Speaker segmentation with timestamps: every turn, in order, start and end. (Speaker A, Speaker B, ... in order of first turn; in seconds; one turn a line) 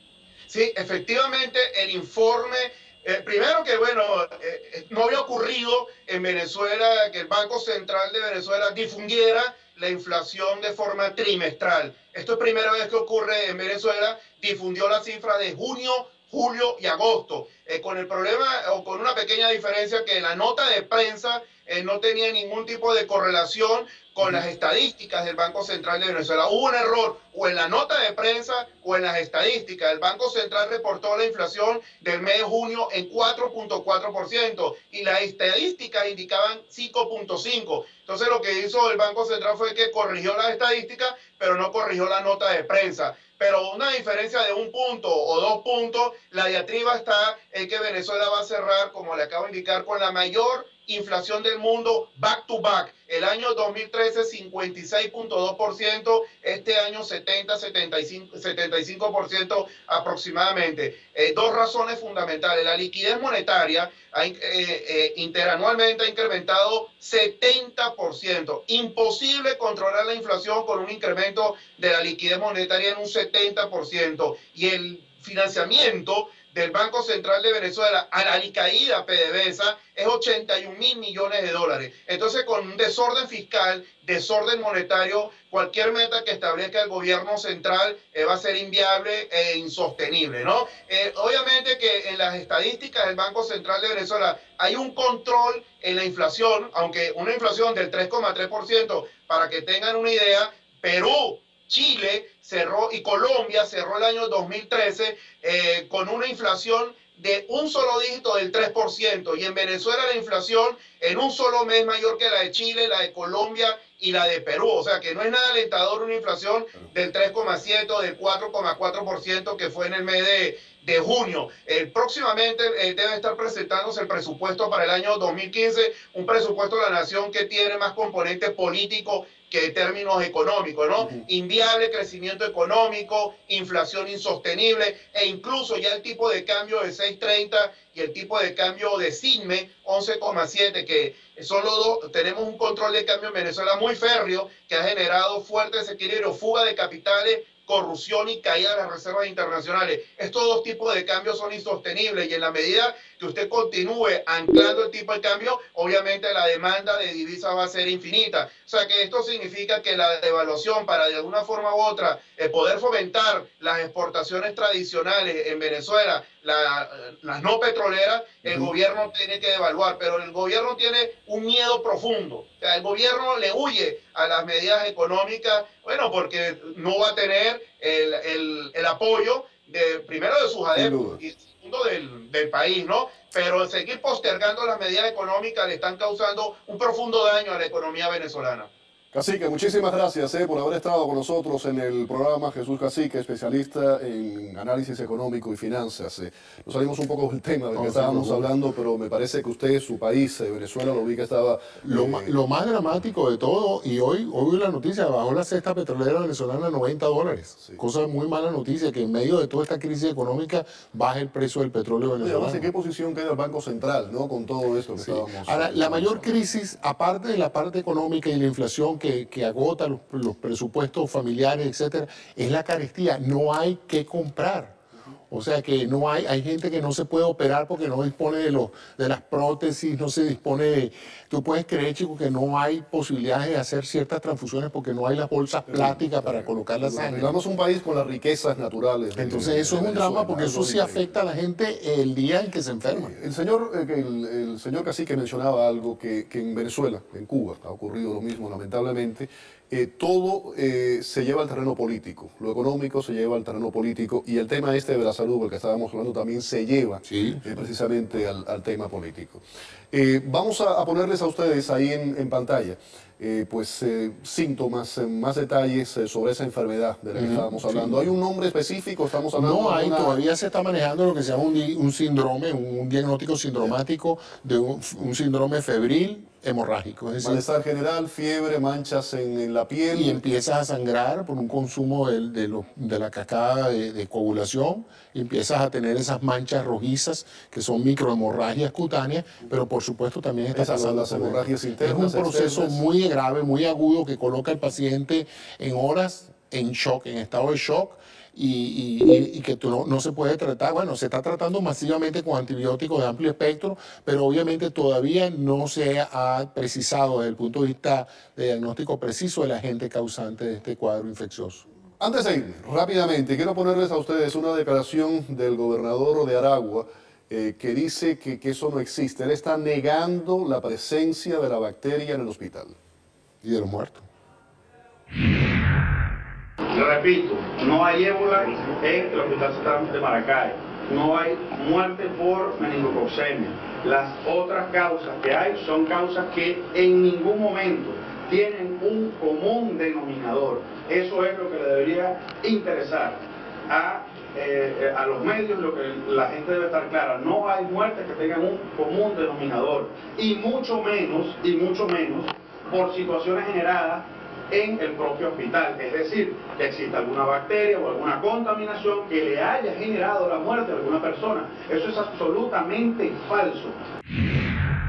Speaker A: 0.5-188.7
Speaker B: 131.0-131.2
Speaker B: 180.7-181.2
Speaker B: 189.1-202.3
Speaker C: 197.7-198.5
Speaker C: 201.8-212.7
Speaker B: 212.2-216.3
Speaker C: 215.0-224.8
Speaker C: 225.3-237.3
Speaker B: 235.7-241.1
Speaker C: 239.1-243.1
Speaker B: 242.9-270.2
Speaker C: 257.1-257.4
Speaker C: 267.1-268.1
Speaker C: 269.3-277.4
Speaker B: 277.2-280.2
Speaker C: 279.9-311.6
Speaker B: 290.5-292.8
Speaker B: 312.0-322.7
Speaker C: 323.4-324.1
Speaker D: 326.7-363.8